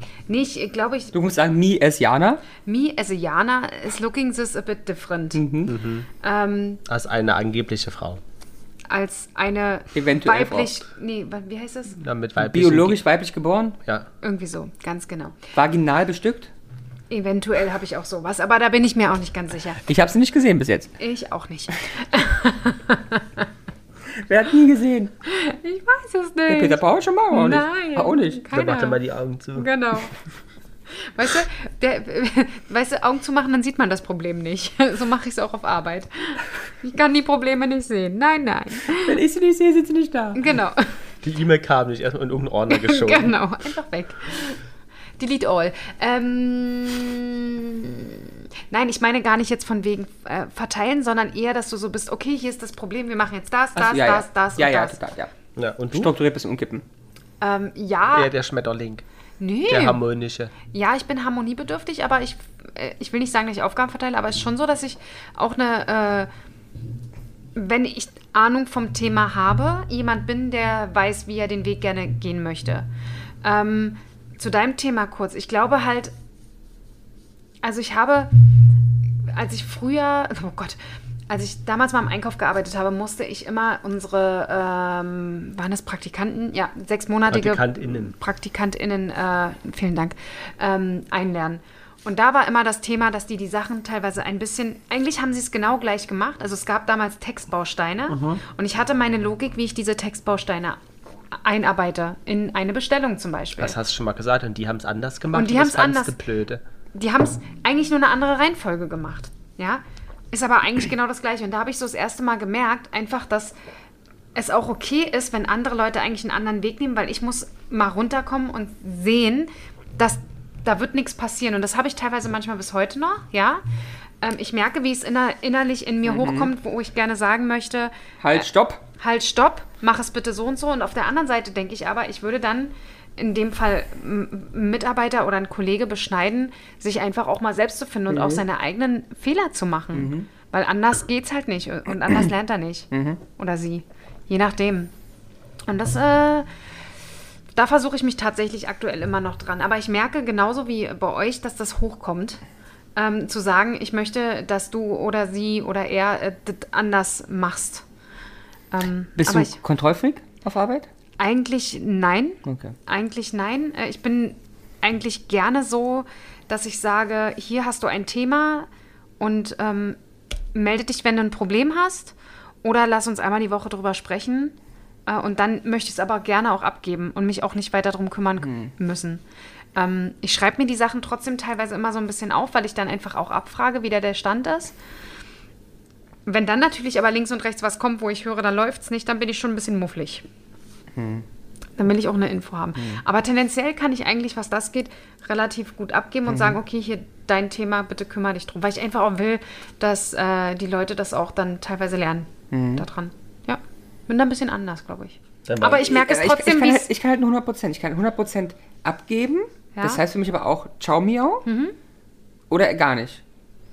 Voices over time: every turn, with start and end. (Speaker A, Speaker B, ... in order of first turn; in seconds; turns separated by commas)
Speaker A: 0.3-1.1, Speaker B: 1.1-2.4, Speaker A: 2.6-5.4, Speaker B: 5.3-5.7, Speaker C: 5.7-6.1, Speaker A: 6.2-6.8, Speaker C: 6.9-8.2, Speaker A: 8.9-12.0, Speaker B: 9.9-10.7, Speaker C: 12.0-13.0, Speaker B: 12.4-13.8, Speaker A: 14.2-15.4, Speaker B: 15.5-16.5, Speaker A: 17.1-19.8, Speaker B: 19.9-20.9, Speaker A: 21.0-23.4, Speaker B: 24.1-25.1, Speaker A: 25.2-29.0, Speaker B: 26.5-28.4, Speaker C: 28.5-29.7, Speaker A: 29.6-30.1, Speaker A: 31.0-39.2, Speaker B: 38.9-40.4, Speaker A: 40.3-40.9, Speaker C: 41.2-43.3, Speaker A: 42.7-44.6, Speaker A: 45.2-55.0, Speaker B: 53.8-55.3, Speaker C: 55.5-56.1, Speaker B: 55.9-56.8, Speaker A: 57.4-58.3, Speaker C: 58.1-59.0, Speaker A: 59.4-60.0, Speaker C: 59.7-60.5, Speaker A: 60.7-66.3, Speaker A: 67.5-72.9, Speaker A: 73.4-76.1, Speaker A: 77.6-78.3, Speaker A: 79.3-80.8, Speaker A: 81.3-100.8, Speaker C: 87.3-88.1, Speaker C: 98.1-98.4, Speaker A: 101.3-103.8, Speaker C: 103.6-106.6, Speaker A: 105.3-106.1, Speaker A: 106.9-113.5, Speaker A: 114.3-123.6, Speaker A: 124.2-128.4, Speaker B: 126.0-126.5, Speaker B: 128.2-128.8, Speaker A: 129.0-144.9, Speaker B: 138.1-138.4, Speaker B: 139.9-140.3, Speaker B: 142.9-143.2, Speaker A: 145.7-146.5, Speaker A: 147.6-152.4, Speaker A: 152.9-157.8, Speaker A: 158.7-159.6, Speaker B: 159.2-160.9, Speaker A: 161.2-168.7, Speaker B: 162.4-162.8, Speaker A: 169.2-170.0, Speaker A: 170.5-174.6, Speaker A: 175.1-179.2, Speaker B: 178.4-178.7, Speaker A: 179.7-184.7, Speaker A: 186.3-190.2, Speaker B: 190.9-191.2, Speaker A: 191.8-206.9, Speaker B: 192.8-193.0, Speaker B: 196.3-196.6, Speaker B: 202.5-202.9, Speaker C: 205.4-205.9, Speaker B: 205.8-211.4, Speaker A: 209.7-210.0, Speaker A: 211.4-211.7, Speaker B: 212.5-213.2